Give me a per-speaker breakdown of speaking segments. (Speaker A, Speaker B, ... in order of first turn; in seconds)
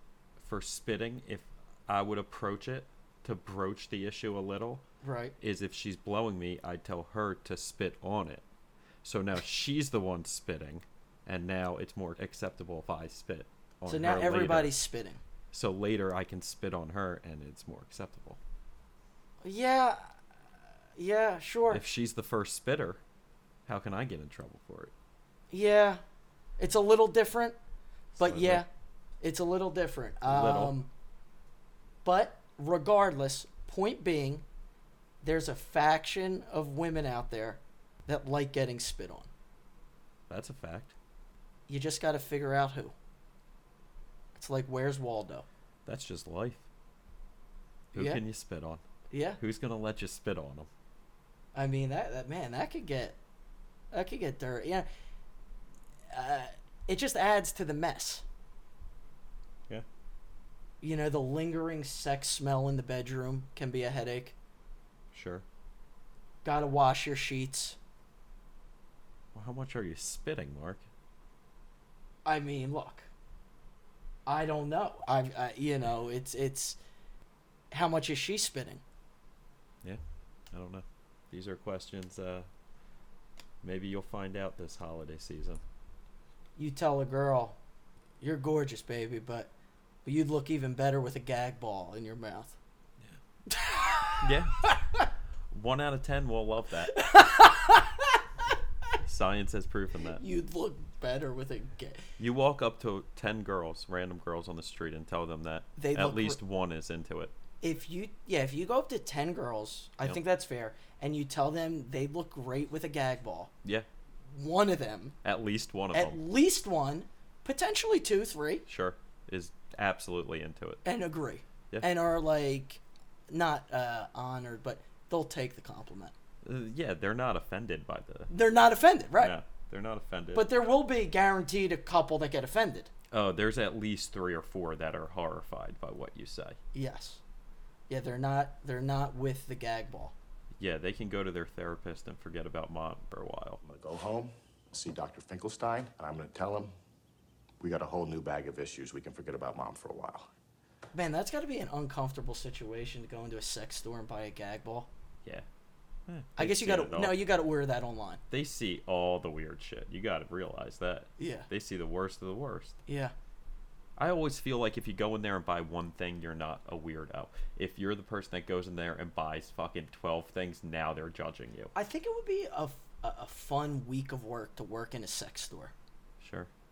Speaker A: 0.4-4.8, 5.4-8.4, 9.0-14.7, 15.5-18.4, 21.7-23.0, 23.6-24.9, 28.1-28.6, 30.2-30.8, 40.3-40.9, 45.9-46.6, 47.9-48.8, 49.4-50.7, 65.1-65.4, 69.3-70.8, 79.8-82.5, 83.6-85.6, 94.2-94.6, 95.5-97.0, 99.0-100.2, 102.2-107.3, 115.2-116.2, 118.7-120.8, 126.4-128.3, 129.2-130.5, 133.1-136.6, 140.6-143.6, 156.1-157.2, 158.3-162.8, 164.0-171.7, 176.2-176.5
Speaker B: 5.0-5.3, 13.9-15.2, 19.4-20.1, 21.0-21.8, 25.5-26.0, 26.6-27.6, 28.2-28.7, 29.2-30.9, 32.0-34.4, 35.2-39.3, 41.7-42.9, 44.4-45.5, 47.9-48.2, 49.1-49.4, 51.5-53.2, 53.9-54.9, 56.1-58.2, 60.8-64.4, 66.4-67.8, 72.2-73.1, 74.3-76.8, 77.7-78.8, 86.6-87.6, 88.2-89.5, 90.0-92.6, 93.5-94.2, 96.9-98.2, 100.2-102.0, 105.8-106.4, 107.6-113.5, 114.3-115.2, 115.9-118.6, 120.8-126.1, 128.3-129.3, 130.3-132.9, 136.7-137.2, 137.9-140.1, 150.9-154.9, 156.4-158.2, 161.2-161.5, 162.9-163.1, 171.8-175.7
Speaker C: 143.6-146.7, 147.6-150.3